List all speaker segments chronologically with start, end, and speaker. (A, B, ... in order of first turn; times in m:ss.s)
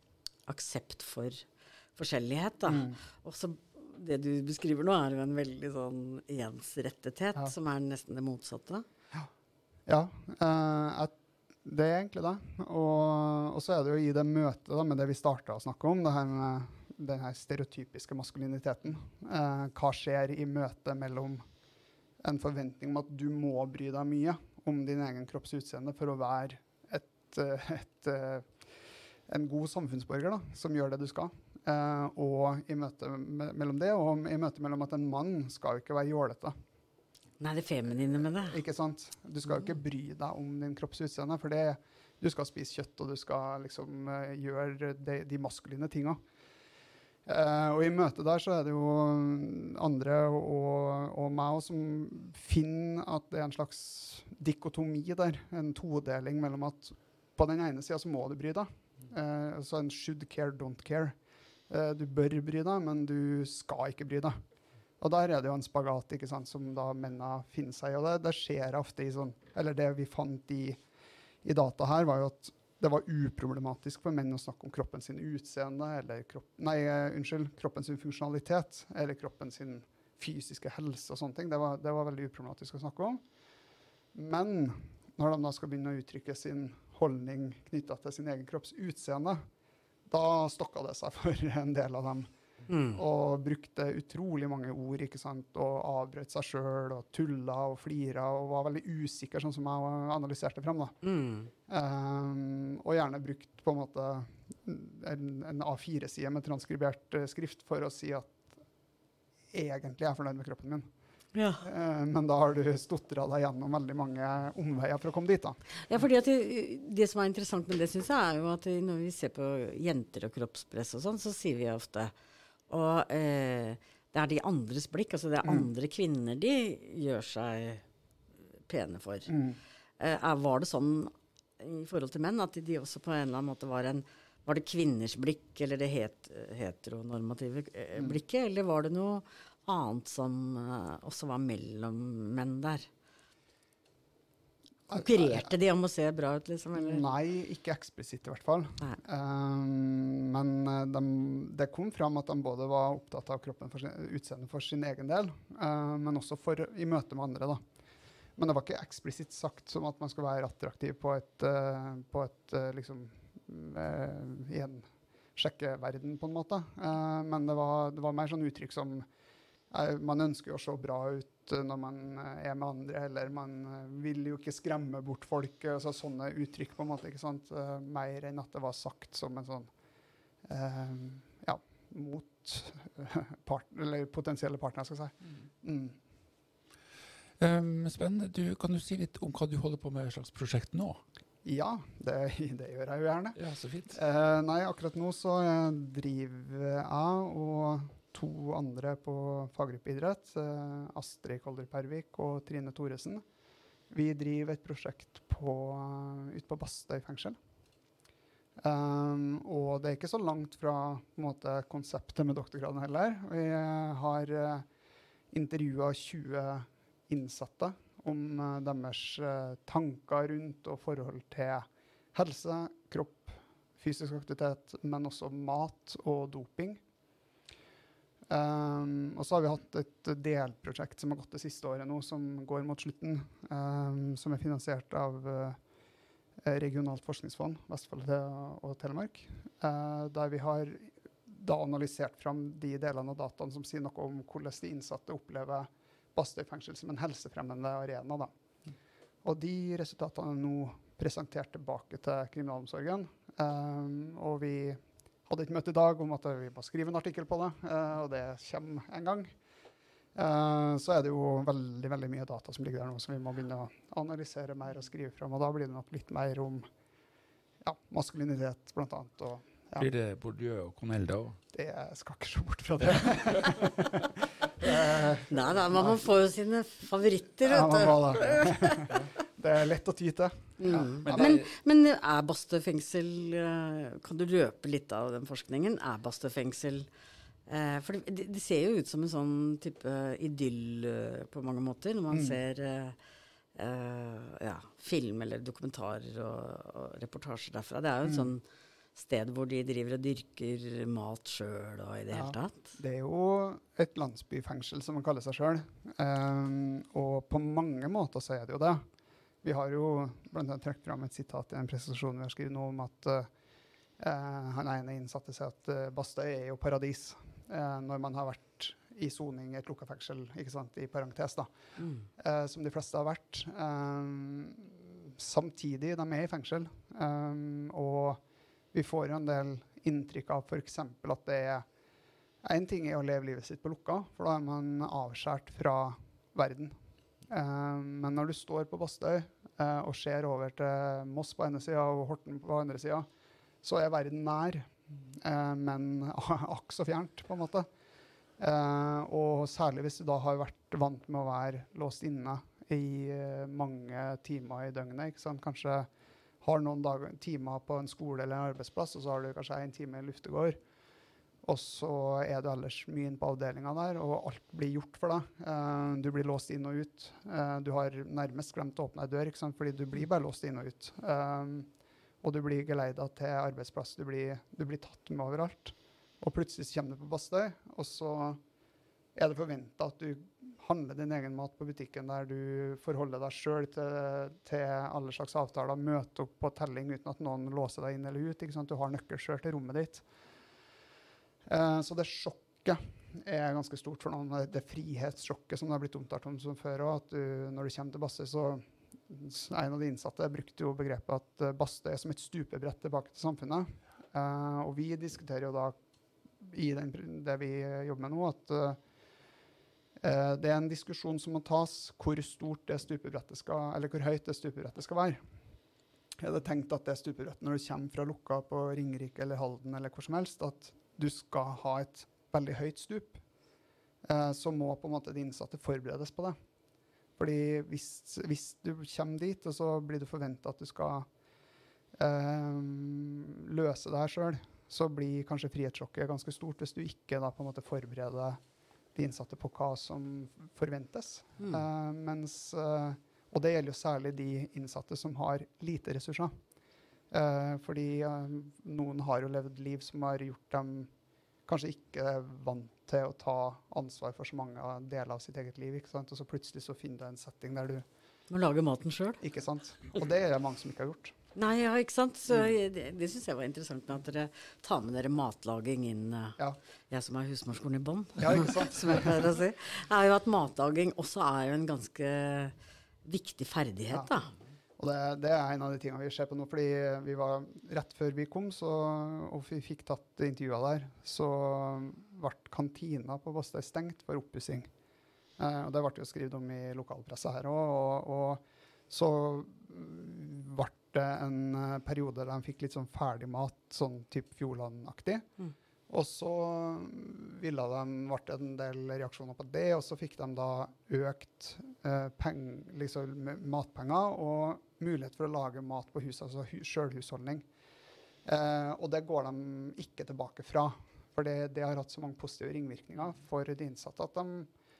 0:00.5-0:01.4 A
0:02.0-0:08.8 A
0:02.7-0:03.0 B
0:09.9-0:21.4 B
0:22.2-0:28.5 B
0:29.3-0:36.5 B
0:37.4-0:38.6 A
0:38.4-0:46.2 B
0:47.2-1:01.1 B
1:01.7-1:04.4 B
1:05.0-1:10.8 B
1:11.4-1:23.2 B
1:24.1-1:29.4 B
1:30.1-1:32.3 B
1:32.7-1:33.0 A
1:32.9-1:41.0 B
1:41.0-1:41.5 A
1:41.7-1:48.5 B
1:49.5-1:50.9 B
1:51.3-1:51.7 A
1:51.6-1:55.6 B
1:55.9-2:02.1 A
2:02.7-2:07.8 A
2:08.7-2:09.4 A
2:09.3-2:09.6 B
2:10.0-2:22.9 A
2:24.9-2:25.5 B
2:24.9-2:27.1 A
2:26.7-2:37.6 B
2:38.4-2:49.1 B
2:49.7-2:59.7 B
3:00.4-3:06.0 B
3:07.4-3:11.0 C
3:11.4-3:13.4 B
3:13.4-3:14.0 C
3:13.9-3:23.2 B
3:23.9-3:27.4 B
3:28.6-3:34.7 B
3:35.3-3:46.8 B
3:48.3-3:55.6 B
3:56.4-4:08.3 B
4:09.2-4:19.3 B
4:20.1-4:26.6 B
4:27.6-4:29.8 B
4:29.8-4:31.4 C
4:31.5-4:36.1 B
4:35.3-4:38.9 A
4:37.4-4:41.4 B
4:40.6-4:46.9 A
4:41.0-4:41.5 C
4:47.5-4:53.0 A
4:52.1-4:52.4 B
4:53.5-4:58.4 A
4:58.0-4:58.3 B
4:58.9-5:02.7 A
5:02.1-5:08.8 B
5:09.4-5:13.3 B
5:14.0-5:21.5 B
5:21.8-5:22.1 A
5:22.2-5:28.2 B
5:28.7-5:31.6 B
5:32.4-5:36.7 B
5:37.3-5:43.1 B
5:43.6-5:47.7 B
5:48.4-5:55.9 B
5:56.4-6:00.6 B
6:01.4-6:11.7 B
6:12.2-6:18.4 B
6:19.1-6:30.0 B
6:31.5-6:45.8 B
6:46.4-6:48.8 B
6:50.0-6:55.2 B
6:56.2-7:03.2 B
7:04.0-7:06.4 B
7:07.2-7:11.1 B
7:11.9-7:18.4 B
7:18.9-7:26.3 B
7:27.1-7:30.9 B
7:31.5-7:37.8 B
7:38.3-7:39.2 A
7:39.2-7:41.1 B
7:41.3-7:46.4 A
7:46.9-7:52.5 A
7:48.2-7:49.3 B
7:53.0-7:54.3 A
7:54.8-8:04.7 B
8:05.4-8:15.3 B
8:15.9-8:27.4 B
8:28.2-8:34.5 B